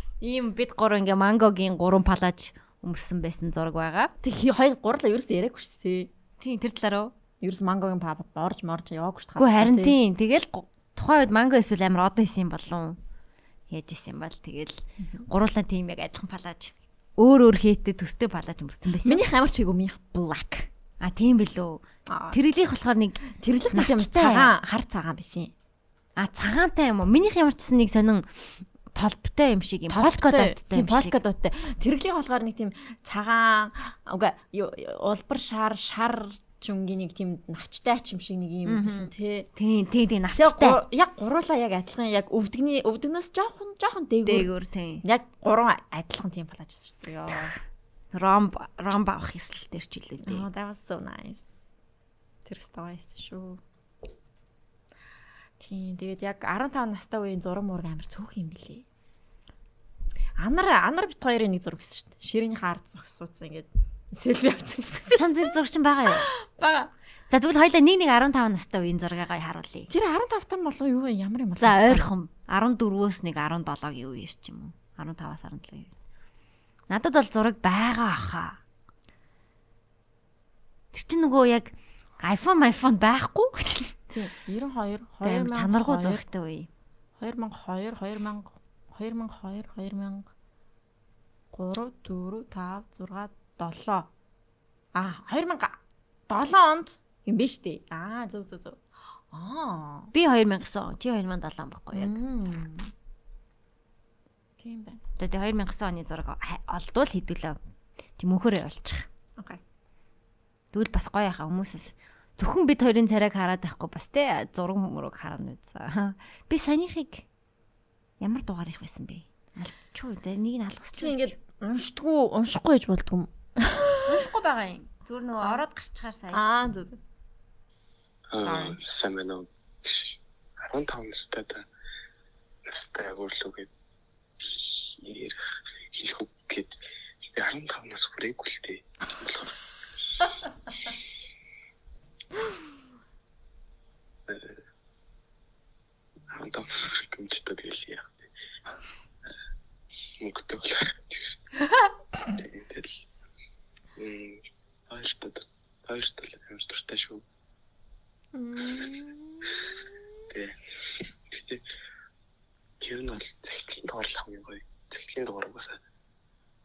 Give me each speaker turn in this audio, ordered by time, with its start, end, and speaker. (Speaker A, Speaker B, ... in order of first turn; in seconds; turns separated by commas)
Speaker A: 0.2-4.1, Speaker B: 4.2-6.1, Speaker A: 6.4-7.1, Speaker B: 7.4-9.9, Speaker A: 9.3-13.0, Speaker A: 13.7-19.2, Speaker B: 19.0-20.7, Speaker A: 21.0-24.5, Speaker B: 22.1-22.4, Speaker B: 23.4-25.5, Speaker A: 26.2-31.1, Speaker B: 29.9-39.5, Speaker A: 38.6-40.8, Speaker B: 40.4-44.5, Speaker A: 44.2-45.0, Speaker B: 45.0-47.5, Speaker A: 48.1-50.5, Speaker B: 50.2-51.6, Speaker B: 52.4-53.6, Speaker B: 55.6-58.9, Speaker B: 60.4-65.4, Speaker A: 65.1-66.3, Speaker B: 66.1-66.9, Speaker A: 67.3-69.9, Speaker B: 69.9-72.1, Speaker A: 71.6-75.9, Speaker A: 76.9-78.6, Speaker A: 80.9-83.9, Speaker B: 84.1-86.2, Speaker A: 85.2-86.7, Speaker B: 87.2-90.3, Speaker B: 91.5-94.1, Speaker B: 94.9-100.1, Speaker A: 100.1-102.2, Speaker B: 101.9-102.9, Speaker B: 104.6-105.0, Speaker A: 105.2-107.6, Speaker A: 108.2-109.1, Speaker A: 110.7-117.2, Speaker A: 118.2-121.4, Speaker B: 120.9-124.2, Speaker A: 124.0-126.4, Speaker B: 126.3-127.0, Speaker C: 128.3-131.6, Speaker B: 128.4-128.8, Speaker C: 132.7-133.7, Speaker C: 134.4-135.4, Speaker C: 135.9-139.6, Speaker C: 144.3-144.6, Speaker C: 146.3-148.2, Speaker C: 150.2-151.3, Speaker C: 152.2-153.0, Speaker C: 153.9-157.2, Speaker B: 158.3-159.5, Speaker C: 160.3-160.6, Speaker C: 161.3-161.6, Speaker C: 162.8-165.8